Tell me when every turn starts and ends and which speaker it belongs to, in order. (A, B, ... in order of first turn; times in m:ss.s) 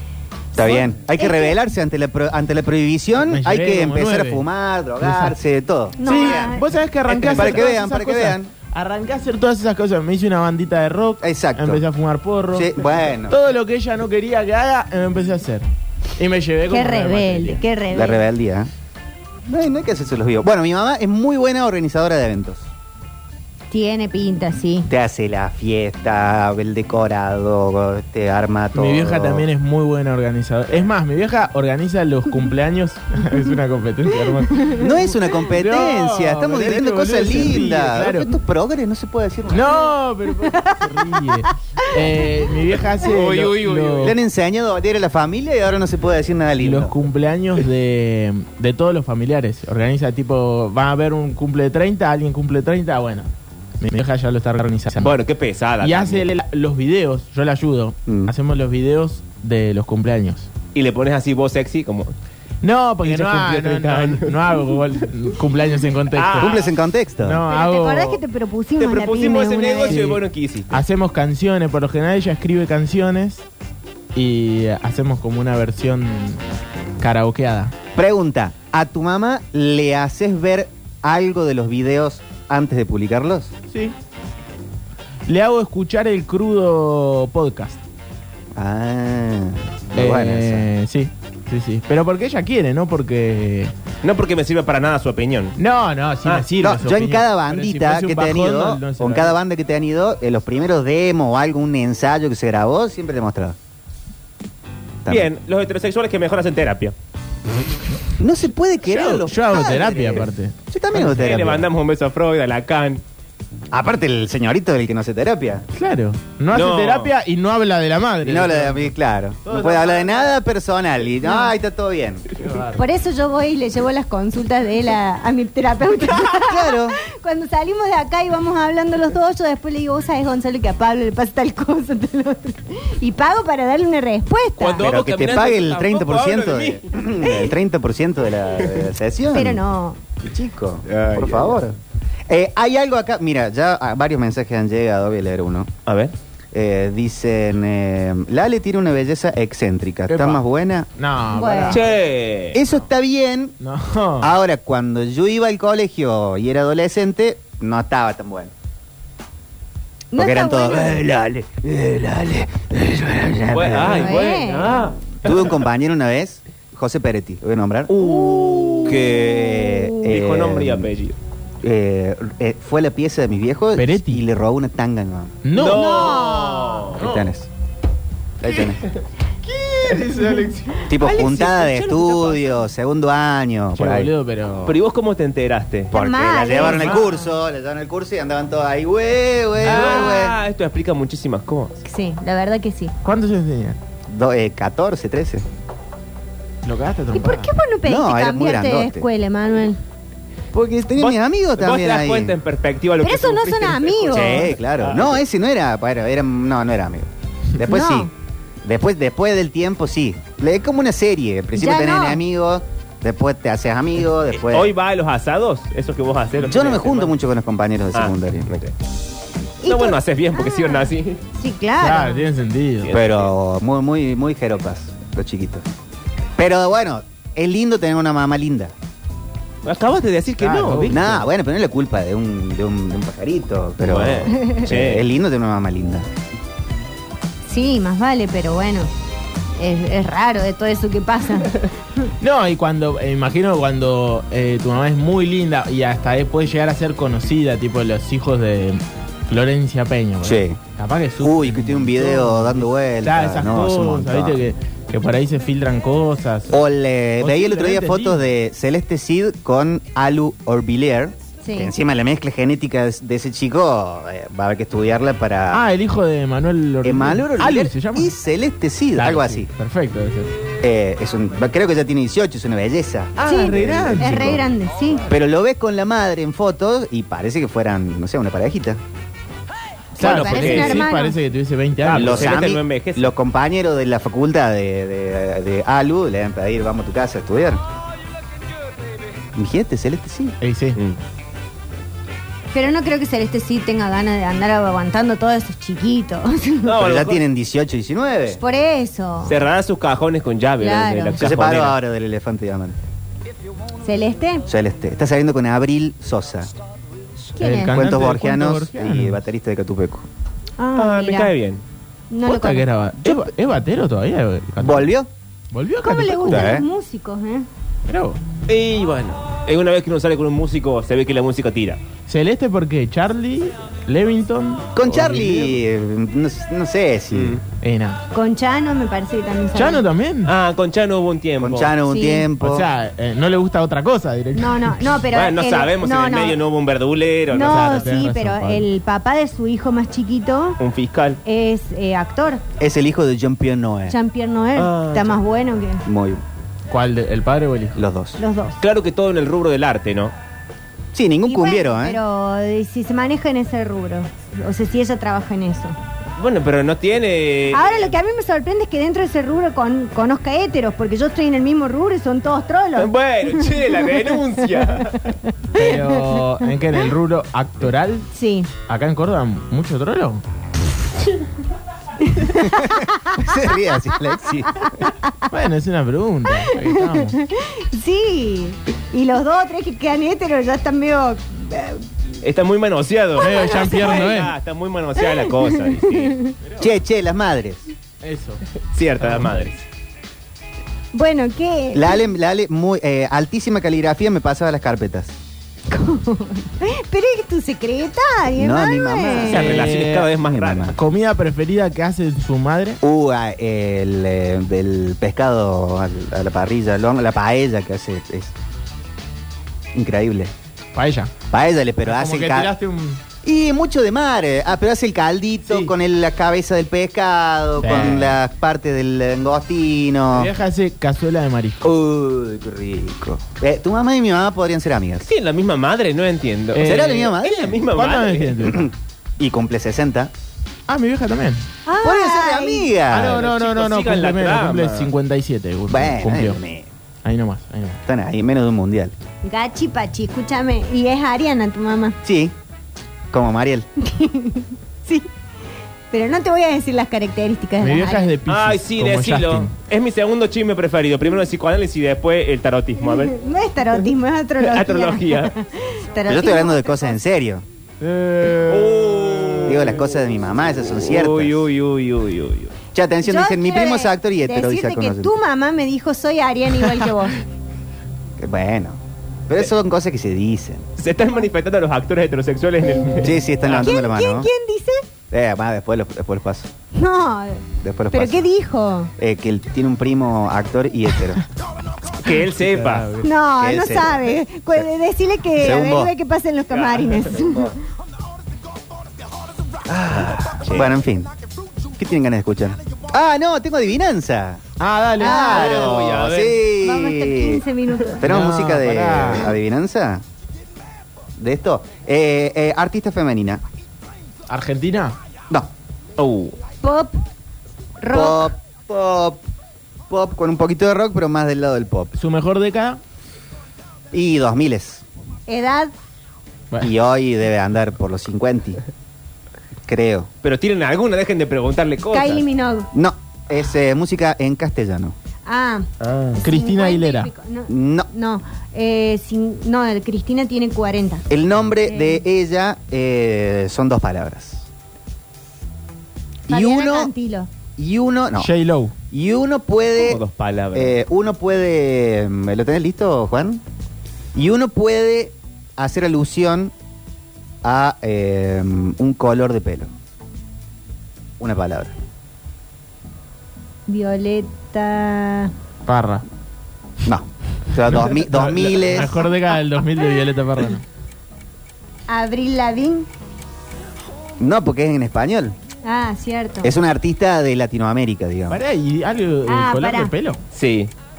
0:00.5-0:01.6 A
0:00.5-0:06.6 B
0:03.2-0:04.4 C
0:05.0-0:05.3 C
0:06.0-0:06.6 A
0:06.0-0:15.6 C
0:07.1-0:07.7 D
0:07.1-0:08.5 B
0:11.2-0:11.8 B
0:12.5-0:13.4 B
0:16.2-0:17.6 C
0:16.7-0:18.2 A
0:17.9-0:18.7 B
0:19.5-0:22.7 B
0:23.7-0:24.9 A
0:24.9-0:29.5 B
0:28.7-0:34.9 C
0:34.8-0:39.8 B
0:35.5-0:38.3 C
0:39.5-0:44.1 C
0:40.4-0:41.2 A
0:41.8-0:42.1 A
0:42.9-0:44.1 D
0:44.0-0:46.9 B
0:46.6-0:53.3 C
0:53.8-0:55.1 C
0:55.0-0:56.3 D
0:55.8-1:00.5 C
0:58.1-0:58.3 B
1:00.7-1:02.1 D
1:02.6-1:06.6 C
1:03.0-1:05.1 D
1:06.1-1:06.7 D
1:06.4-1:07.4 B
1:07.2-1:08.2 C
1:07.5-1:10.0 A
1:08.8-1:10.8 D
1:09.9-1:13.4 C
1:14.1-1:16.4 C
1:17.0-1:17.7 C
1:18.0-1:23.5 B
1:25.3-1:27.8 C
1:28.5-1:30.7 B
1:29.9-1:33.7 C
1:34.0-1:35.6 D
1:35.6-1:39.3 C
1:36.6-1:43.6 B
1:45.1-1:46.9 D
1:48.2-1:51.6 B
1:48.8-1:51.5 C
1:50.9-1:53.0 D
1:53.7-1:55.6 B
1:55.7-1:58.9 C
1:56.5-1:57.1 D
1:58.2-2:02.3 B
1:59.4-2:00.3 C
2:01.2-2:01.5 A
2:02.4-2:02.8 C
2:02.7-2:14.9 A
2:06.1-2:07.0 B
2:14.6-2:16.9 D
2:14.8-2:19.6 B
2:19.3-2:20.0 A
2:20.2-2:25.7 B
2:20.9-2:21.6 D
2:25.8-2:26.1 D
2:26.5-2:30.9 B
2:30.1-2:30.4 C
2:31.0-2:31.9 C
2:31.3-2:31.8 A
2:31.7-2:32.6 D
2:32.5-2:33.6 B
2:33.6-2:34.3 C
2:34.2-2:38.5 B
2:40.1-2:41.0 A
2:40.1-2:44.2 B
2:43.5-2:45.6 D
2:43.9-2:44.8 A
2:45.2-2:50.9 B
2:47.9-2:51.2 D
2:48.0-2:49.0 A
2:51.6-2:55.4 B
2:53.8-2:54.2 C
2:55.4-2:57.3 C
2:55.5-2:57.0 D
2:55.6-2:56.9 A
2:56.9-2:57.5 B
2:58.4-2:58.8 B
2:59.4-3:00.9 C
3:00.9-3:04.1 B
3:00.9-3:02.6 D
3:03.7-3:04.8 C
3:04.6-3:05.9 D
3:05.9-3:07.3 A
3:05.9-3:10.4 B
3:06.5-3:06.8 D
3:06.6-3:07.1 C
3:09.6-3:11.8 D
3:09.6-3:10.0 C
3:11.8-3:12.9 A
3:13.0-3:13.8 C
3:14.1-3:15.4 B
3:16.6-3:17.5 C
3:17.1-3:19.8 A
3:17.8-3:19.0 B
3:20.5-3:22.4 B
3:21.0-3:25.2 D
3:23.0-3:24.5 A
3:24.1-3:28.1 B
3:27.6-3:28.1 A
3:28.6-3:34.7 B
3:31.5-3:32.2 A
3:34.4-3:37.1 D
3:36.4-3:38.5 B
3:37.9-3:38.7 D
3:39.6-3:42.3 A
3:39.6-3:41.2 D
3:41.8-3:42.9 C
3:42.8-3:43.3 D
3:42.9-3:45.6 B
3:46.4-3:48.7 B
3:49.6-3:51.0 D
3:50.4-3:51.2 C
3:50.9-3:56.1 B
3:53.8-3:55.0 D
3:54.3-3:54.6 A
3:57.5-3:58.9 A
3:59.6-4:01.5 A
4:02.2-4:16.6 C
4:10.2-4:10.6 B
4:11.2-4:14.4 B
4:16.5-4:25.6 B
4:17.2-4:18.2 C
4:21.4-4:21.7 A
4:25.5-4:28.1 C
4:26.8-4:29.5 B
4:28.9-4:30.3 C
4:30.6-4:34.4 B
4:33.2-4:34.4 C
4:33.2-4:35.0 A
4:35.1-4:38.8 B
4:39.9-4:41.2 A
4:40.0-4:42.4 C
4:40.0-4:40.9 D
4:41.8-4:43.1 D
4:41.9-4:47.6 B
4:49.3-4:50.4 B
4:50.4-4:50.8 C
4:52.5-4:56.7 A
4:56.6-4:57.2 D
4:56.8-4:58.4 B
4:58.3-4:59.4 A
4:59.2-5:01.8 D
5:00.6-5:01.2 A
5:01.2-5:02.8 B
5:03.8-5:04.5 A
5:04.5-5:06.5 B
5:07.3-5:07.8 A
5:07.4-5:09.2 C
5:07.6-5:10.1 B
5:10.6-5:11.3 A
5:10.7-5:11.6 D
5:12.1-5:12.6 A
5:12.2-5:14.9 C
5:14.6-5:15.1 B
5:15.5-5:16.5 C
5:15.8-5:17.5 A
5:16.3-5:16.6 B
5:17.8-5:18.2 C
5:18.5-5:21.8 D
5:22.1-5:25.6 C
5:24.7-5:27.4 B
5:27.1-5:27.4 D
5:27.6-5:28.0 C
5:28.1-5:29.8 A
5:29.5-5:30.3 C
5:30.2-5:31.7 D
5:31.4-5:32.7 B
5:31.8-5:32.3 A
5:32.4-5:34.8 C
5:34.3-5:36.4 A
5:35.1-5:37.9 D
5:37.3-5:40.6 A
5:37.4-5:38.7 C
5:40.6-5:41.2 D
5:41.2-5:42.4 A
5:42.6-5:43.9 B
5:43.9-5:45.8 A
5:44.6-5:45.2 D
5:45.8-5:46.2 B
5:46.7-5:47.8 C
5:47.8-5:48.2 B
5:48.2-5:48.6 A
5:48.6-5:50.1 D
5:50.9-5:52.0 B
5:51.2-5:55.8 A
5:56.2-5:57.9 D
5:57.5-6:04.0 A
6:02.8-6:05.2 D
6:05.2-6:06.1 A
6:05.5-6:08.1 C
6:08.1-6:08.5 A
6:08.7-6:10.2 C
6:12.0-6:13.3 A
6:12.5-6:14.5 B
6:14.6-6:15.3 A
6:15.3-6:17.2 C
6:16.4-6:21.9 A
6:22.2-6:26.2 D
6:23.2-6:24.1 A
6:23.2-6:24.3 C
6:25.0-6:26.4 A
6:26.4-6:26.7 C
6:26.6-6:27.7 B
6:28.0-6:28.4 C
6:28.7-6:29.6 D
6:29.0-6:29.4 C
6:30.9-6:32.0 A
6:31.7-6:35.1 B
6:35.7-6:39.4 A
6:38.3-6:40.8 B
6:39.2-6:40.7 D
6:39.3-6:40.1 C
6:40.7-6:42.8 C
6:42.8-6:48.3 B
6:49.7-6:50.3 B
6:50.7-6:51.1 C
6:51.3-6:52.5 B
6:51.8-6:53.0 C
6:53.2-7:00.3 B
6:57.6-6:58.2 C
7:00.1-7:01.7 C
7:01.6-7:05.1 B
7:05.1-7:08.6 D
7:06.5-7:07.0 C
7:06.6-7:07.6 B
7:07.7-7:08.6 C
7:08.4-7:10.1 B
7:10.7-7:11.4 C
7:11.6-7:12.7 A
7:11.8-7:13.2 B
7:12.9-7:16.4 C
7:12.9-7:14.9 D
7:15.7-7:16.7 B
7:17.0-7:17.8 C
7:17.8-7:18.9 B
7:19.2-7:22.0 A
7:22.0-7:22.3 B
7:23.1-7:23.7 B
7:23.8-7:25.1 A
7:25.9-7:28.1 A
7:27.6-7:29.5 C
7:28.3-7:33.2 D
7:32.8-7:36.9 A
7:34.4-7:35.3 D
7:36.1-7:37.4 B
7:37.8-7:39.4 C
7:38.4-7:39.9 D
7:39.4-7:41.5 B
7:40.7-7:42.5 D
7:42.7-7:45.1 B
7:43.0-7:47.2 A
7:48.2-7:50.7 B
7:50.8-7:53.7 D
7:53.0-7:54.3 B
7:53.6-7:54.8 A
7:55.1-7:56.5 B
7:56.7-7:58.9 A
7:57.6-7:58.3 B
7:59.0-8:01.2 B
8:02.0-8:02.9 D
8:02.4-8:03.1 C
8:03.0-8:07.5 A
8:03.4-8:04.6 B
8:05.3-8:05.9 B
8:06.5-8:07.1 D
8:07.2-8:07.5 B
8:09.7-8:11.1 B
8:09.9-8:10.7 D
8:11.7-8:14.4 B
8:14.6-8:15.4 C
8:15.0-8:15.8 A
8:15.0-8:17.4 B
8:15.2-8:16.4 D
8:16.6-8:18.1 A
8:18.0-8:20.0 B
8:18.0-8:19.3 C
8:21.2-8:23.4 B
8:24.3-8:25.0 C
8:26.0-8:26.4 D
8:26.6-8:27.0 A
8:27.8-8:28.3 A
8:27.9-8:29.2 B
8:29.9-8:31.9 B
8:31.9-8:32.8 C
8:33.9-8:34.8 B
8:35.3-8:35.7 A
8:36.6-8:38.6 B
8:39.6-8:40.1 B
8:40.2-8:42.2 D
8:41.9-8:42.7 A
8:42.7-8:44.9 B
8:45.2-8:45.7 A
8:45.8-8:46.2 D
8:46.2-8:47.1 C
8:46.2-8:51.0 A
8:47.5-8:47.9 B
8:51.1-8:54.5 B
8:51.6-8:52.0 A
8:56.3-8:56.9 B
8:56.3-8:57.3 A
8:57.6-8:58.3 B
8:58.2-8:58.7 C
8:58.9-9:00.0 B
8:59.8-9:00.8 D
9:00.5-9:03.4 B
9:04.1-9:06.5 B
9:07.4-9:09.7 B
9:11.2-9:11.7 B
9:13.7-9:15.3 A
9:15.6-9:16.0 C
9:16.8-9:19.0 B
9:17.6-9:20.6 C
9:21.9-9:22.9 A
9:24.2-9:25.4 B
9:25.6-9:26.5 A
9:26.4-9:28.4 B
9:28.3-9:30.2 C
9:29.3-9:29.9 A
9:30.3-9:30.7 D